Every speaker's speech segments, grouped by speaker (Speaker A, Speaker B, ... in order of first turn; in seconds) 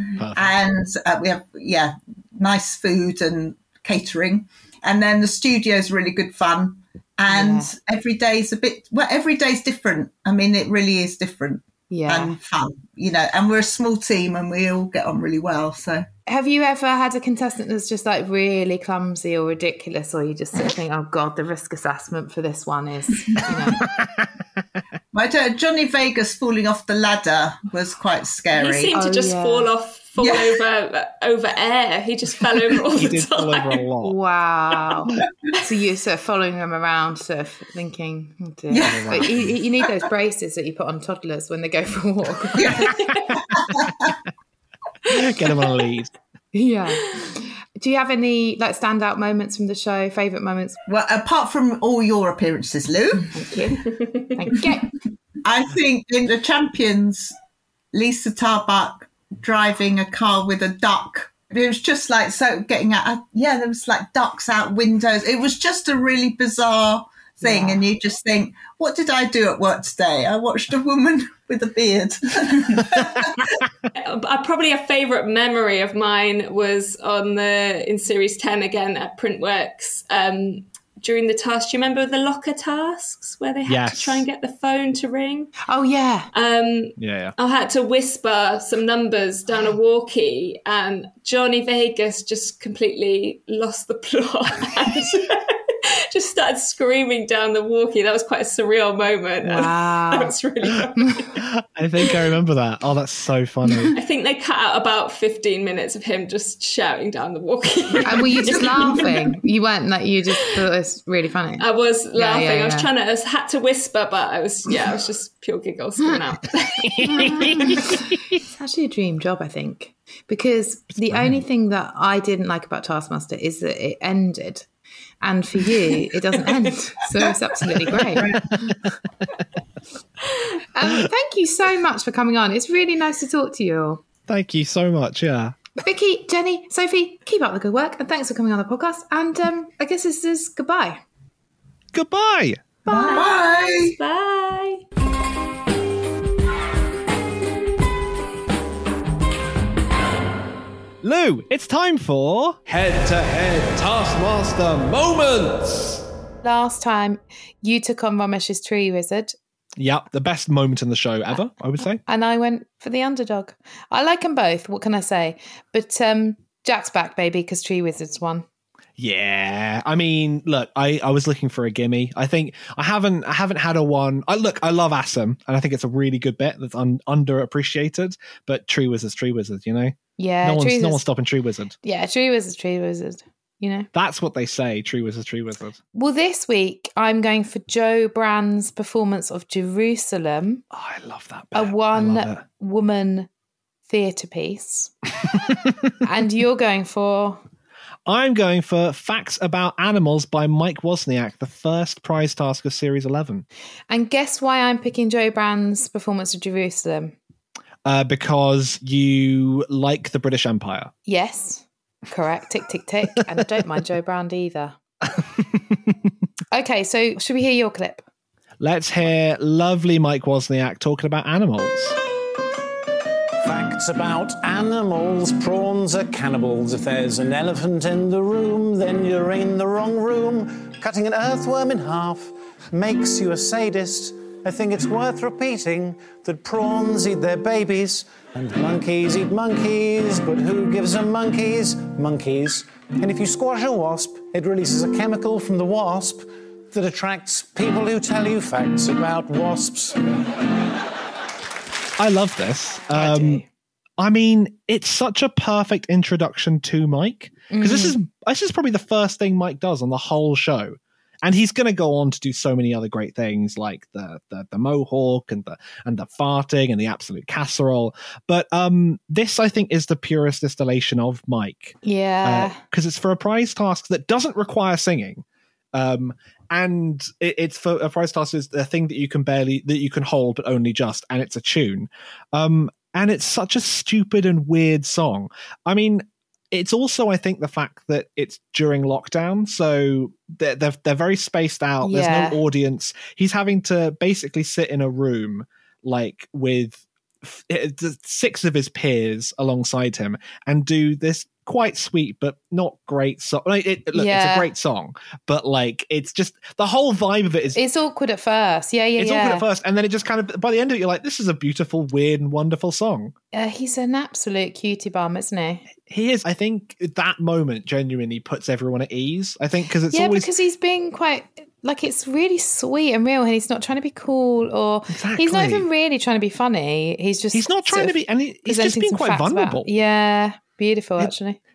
Speaker A: 0.2-0.6, 32.9-34.1, 38.8-39.5, 45.0-46.1, 83.7-84.3, 87.0-87.3, 101.4-104.0, 116.8-118.4, 121.0-121.4, 128.1-128.7, 134.3-135.6, 141.9-142.6, 151.0-156.0, 159.8-162.0, 169.0-181.7, 183.9-185.8, 190.7-192.4, 198.1-203.4, 207.8-210.9, 218.6-222.0, 252.0-253.4, 254.0-307.6, 309.0-313.1, 315.8-320.3, 324.9-325.7, 327.3-329.7
Speaker B: 0.3-16.1, 25.1-28.9, 30.2-30.6, 38.7-39.4, 42.5-44.1, 50.9-53.3, 55.4-57.3, 57.9-73.5, 128.2-128.4, 142.9-144.0
Speaker C: 7.3-7.7, 11.9-12.3, 16.3-23.8, 28.9-29.7, 34.0-42.8, 46.5-50.8, 53.3-54.9, 67.4-67.8, 85.7-86.3, 99.4-100.3, 101.0-101.2, 108.0-112.9, 117.0-124.7, 125.2-128.3, 130.7-134.0, 135.8-141.0, 156.4-159.3, 162.0-168.4, 180.2-181.1, 181.8-183.9, 185.9-190.6, 191.5-193.3, 193.9-194.9, 196.0-197.4, 203.9-207.2, 211.1-214.8, 216.5-218.0, 252.9-253.4, 257.5-258.0, 271.8-272.6, 291.8-292.4, 303.9-304.5, 307.5-309.4, 313.3-315.6, 319.9-331.4
Speaker D: 28.5-33.8, 74.0-85.5, 86.3-101.4, 103.9-109.3, 111.6-117.8, 142.8-144.8
Speaker E: 223.4-250.0